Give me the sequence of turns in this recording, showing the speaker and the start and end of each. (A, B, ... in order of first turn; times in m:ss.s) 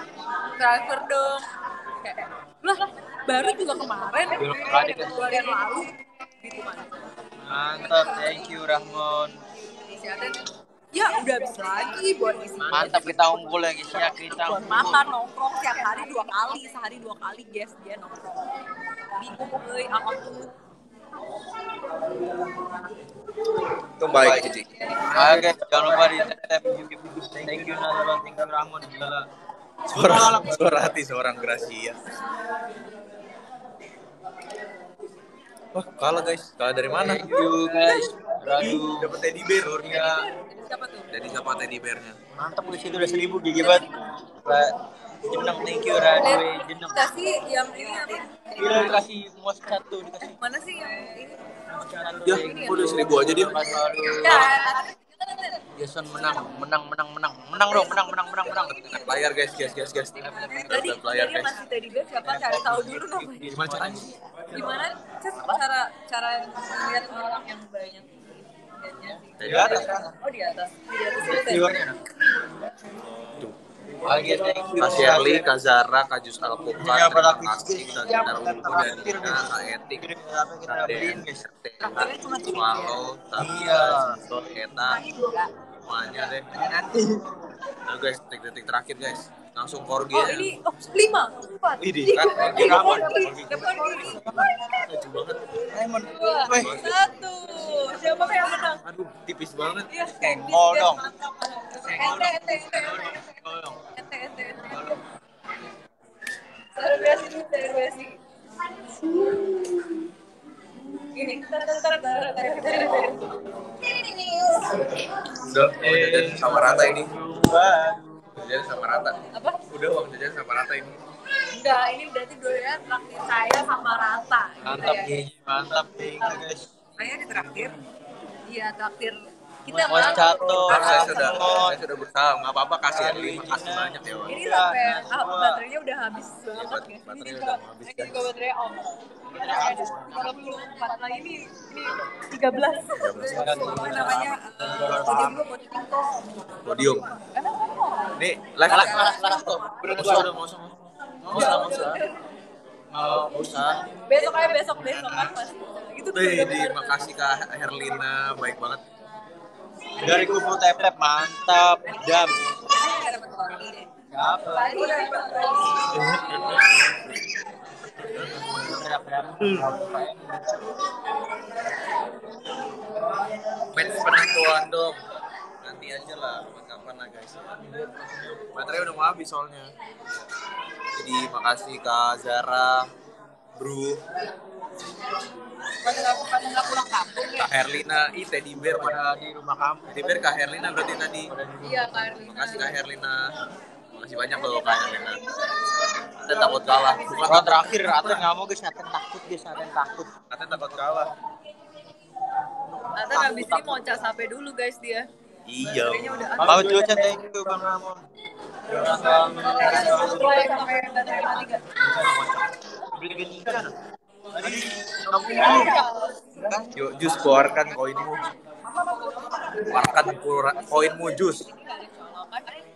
0:00.3-0:08.5 A
0:04.3-0:05.5 B
0:07.5-0:09.4 B
0:09.9-0:13.1 A
0:12.6-0:15.1 B
0:14.3-0:18.4 A
0:19.0-0:20.5 A
0:24.0-0:25.4 C
0:24.2-0:24.4 B
0:24.2-0:25.9 A
0:25.1-0:29.2 B
0:29.9-0:30.9 B
0:29.9-0:32.0 C
0:35.7-0:38.0 C
0:36.9-0:40.3 B
0:38.6-0:39.8 C
0:39.8-0:41.2 A
0:41.1-0:42.2 C
0:42.3-0:44.7 B
0:43.6-0:44.0 A
0:45.2-0:47.0 B
0:46.1-0:49.0 A
0:48.6-0:50.4 B
0:50.2-0:51.4 A
0:51.7-0:54.5 B
0:52.2-0:53.6 C
0:52.2-0:53.3 A
0:54.1-0:55.6 A
0:55.8-0:59.0 B
0:57.7-0:59.2 A
0:58.9-1:01.5 C
1:00.2-1:00.9 B
1:00.3-1:03.6 A
1:02.2-1:04.1 B
1:03.5-1:04.1 C
1:04.5-1:11.8 A
1:09.4-1:10.0 C
1:09.4-1:10.1 B
1:11.2-1:12.0 B
1:14.0-1:15.5 B
1:14.8-1:20.1 C
1:16.8-1:21.5 B
1:20.6-1:25.0 C
1:21.8-1:22.9 A
1:23.4-1:24.2 B
1:24.8-1:25.5 A
1:25.8-1:26.5 C
1:26.5-1:27.4 B
1:27.8-1:30.5 C
1:30.1-1:34.9 A
1:31.8-1:37.0 B
1:32.1-1:35.5 C
1:36.0-1:38.8 A
1:36.5-1:37.3 C
1:38.8-1:39.9 C
1:39.9-1:45.0 A
1:40.0-1:41.1 B
1:41.7-1:43.8 B
1:46.8-1:48.2 A
1:49.0-1:49.6 A
1:50.9-1:53.3 A
1:54.0-1:54.9 A
1:55.4-1:57.1 C
1:55.7-1:58.2 B
1:58.4-2:01.0 C
1:59.3-1:59.6 A
2:01.5-2:05.2 A
2:04.6-2:06.7 B
2:07.0-2:07.8 A
2:08.5-2:11.7 A
2:09.7-2:11.8 B
2:10.6-2:14.5 C
2:12.9-2:15.6 B
2:14.3-2:29.9 A
2:16.5-2:18.3 C
2:19.3-2:20.6 B
2:23.0-2:23.8 C
2:23.2-2:25.4 B
2:26.6-2:27.1 C
2:28.2-2:30.5 C
2:28.6-2:32.0 B
2:31.3-2:31.8 C
2:31.3-2:32.2 A
2:32.9-2:33.8 B
2:33.0-2:33.7 C
2:34.0-2:37.0 A
2:34.6-2:35.3 B
2:36.1-2:38.8 C
2:40.0-2:40.4 A
2:40.0-2:42.4 B
2:41.9-2:43.9 A
2:44.1-2:45.1 B
2:44.4-2:46.4 A
2:45.8-2:46.4 B
2:45.9-2:46.4 C
2:48.1-2:48.7 C
2:48.4-2:50.6 B
2:53.7-2:55.0 C
2:55.6-2:59.7 C
3:00.9-3:02.9 C
3:03.6-3:04.0 C
3:05.8-3:07.5 A
3:07.4-3:09.0 C
3:08.5-3:10.3 B
3:09.9-3:11.3 C
3:11.3-3:11.9 B
3:11.6-3:12.7 A
3:12.0-3:13.3 C
3:14.0-3:15.2 C
3:14.3-3:15.5 A
3:16.2-3:17.7 C
3:16.9-3:17.2 A
3:17.2-3:20.1 B
3:20.3-3:21.1 C
3:22.9-3:25.1 A
3:23.0-3:23.8 B
3:25.4-3:27.0 C
3:25.6-3:26.9 A
3:26.4-3:28.0 B
3:28.7-3:30.6 B
3:29.0-3:31.6 A
3:31.4-3:33.7 B
3:34.3-3:35.8 B
3:35.2-3:36.2 A
3:36.4-3:36.7 B
3:36.7-3:38.3 C
3:38.8-3:39.9 A
3:39.6-3:41.5 C
3:40.6-3:42.6 A